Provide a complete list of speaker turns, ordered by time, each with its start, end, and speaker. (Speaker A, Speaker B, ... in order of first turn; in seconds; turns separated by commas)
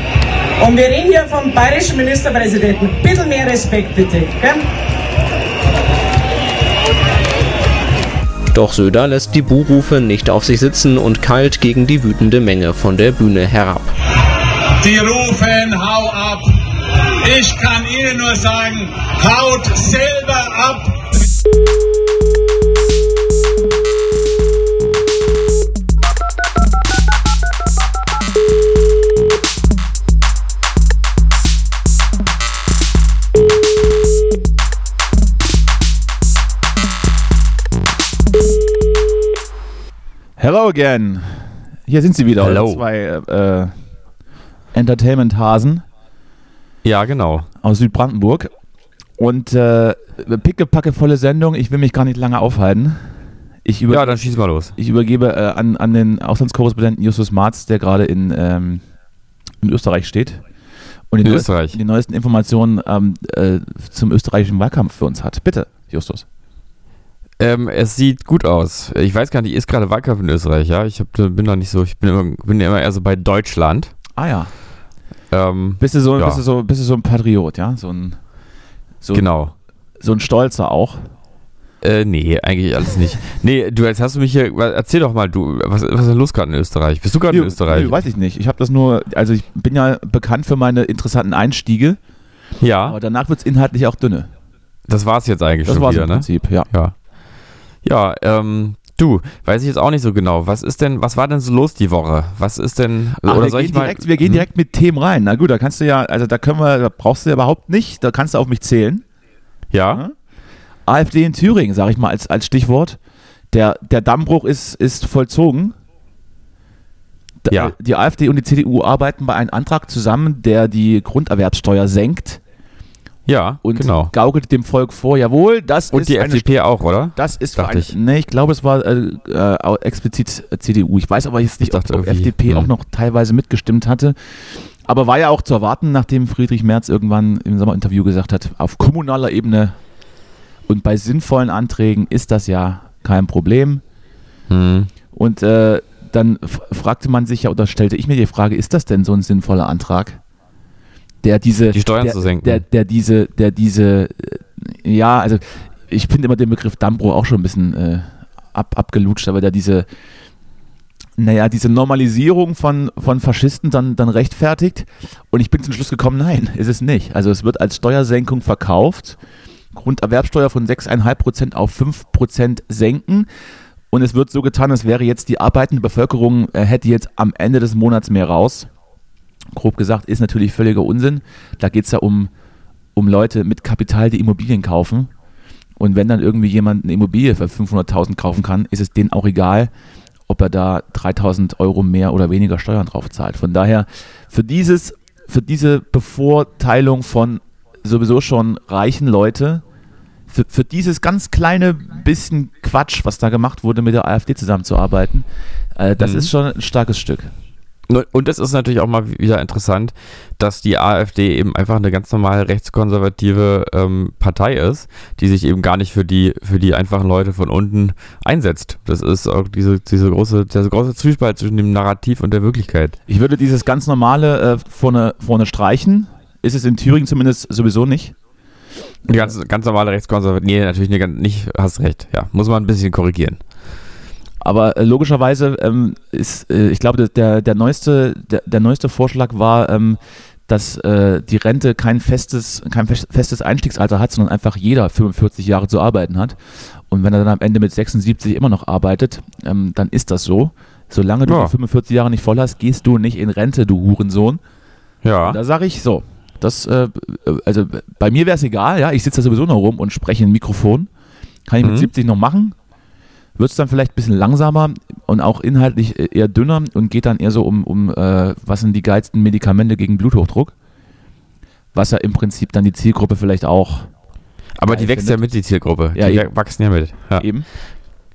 Speaker A: 0.6-4.6, Speaker B: 8.5-13.9, Speaker C: 14.8-16.5, Speaker C: 17.2-21.0, Speaker D: 40.4-43.7, Speaker E: 42.4-42.8, Speaker D: 44.7-45.8, Speaker E: 46.8-47.5, Speaker D: 47.6-48.5, Speaker D: 49.2-53.0, Speaker D: 53.6-58.8, Speaker E: 53.9-54.7, Speaker D: 59.6-60.4, Speaker D: 61.1-66.2, Speaker E: 61.2-61.8, Speaker E: 67.4-73.9, Speaker D: 74.2-74.5, Speaker E: 75.3-76.4, Speaker D: 75.8-78.2, Speaker E: 79.1-79.5, Speaker D: 80.0-81.0, Speaker E: 81.8-87.9, Speaker D: 87.3-92.0, Speaker E: 92.6-93.0, Speaker D: 92.8-94.3, Speaker E: 94.9-97.0, Speaker D: 95.7-96.7, Speaker E: 97.8-104.5, Speaker D: 103.2-109.0, Speaker E: 109.7-110.0, Speaker D: 110.9-113.0, Speaker D: 113.5-115.8, Speaker D: 117.4-122.4, Speaker E: 117.5-117.8, Speaker E: 123.3-124.1, Speaker D: 123.6-126.6, Speaker E: 125.9-127.9, Speaker D: 127.2-134.2, Speaker E: 131.6-132.7, Speaker D: 134.9-139.8, Speaker D: 140.7-143.8, Speaker E: 144.5-144.9, Speaker D: 145.1-150.2, Speaker D: 151.2-159.9, Speaker E: 151.7-152.6, Speaker D: 161.2-169.2, Speaker D: 169.7-173.3, Speaker D: 173.9-178.7, Speaker D: 179.6-182.3, Speaker D: 183.0-185.1, Speaker D: 185.8-189.7, Speaker D: 190.3-199.6, Speaker D: 200.3-205.2, Speaker D: 205.8-207.3, Speaker E: 206.0-206.3, Speaker E: 207.9-223.0, Speaker D: 223.1-228.1, Speaker D: 229.1-229.3, Speaker E: 229.1-233.4, Speaker D: 234.4-246.4, Speaker D: 246.9-254.4, Speaker E: 251.2-251.6, Speaker E: 255.0-255.4, Speaker D: 255.2-260.9, Speaker D: 261.5-262.6, Speaker E: 261.6-261.9, Speaker D: 263.4-270.5, Speaker D: 271.8-273.9, Speaker E: 274.6-277.3, Speaker D: 274.7-275.2, Speaker D: 275.9-276.3, Speaker D: 277.2-277.4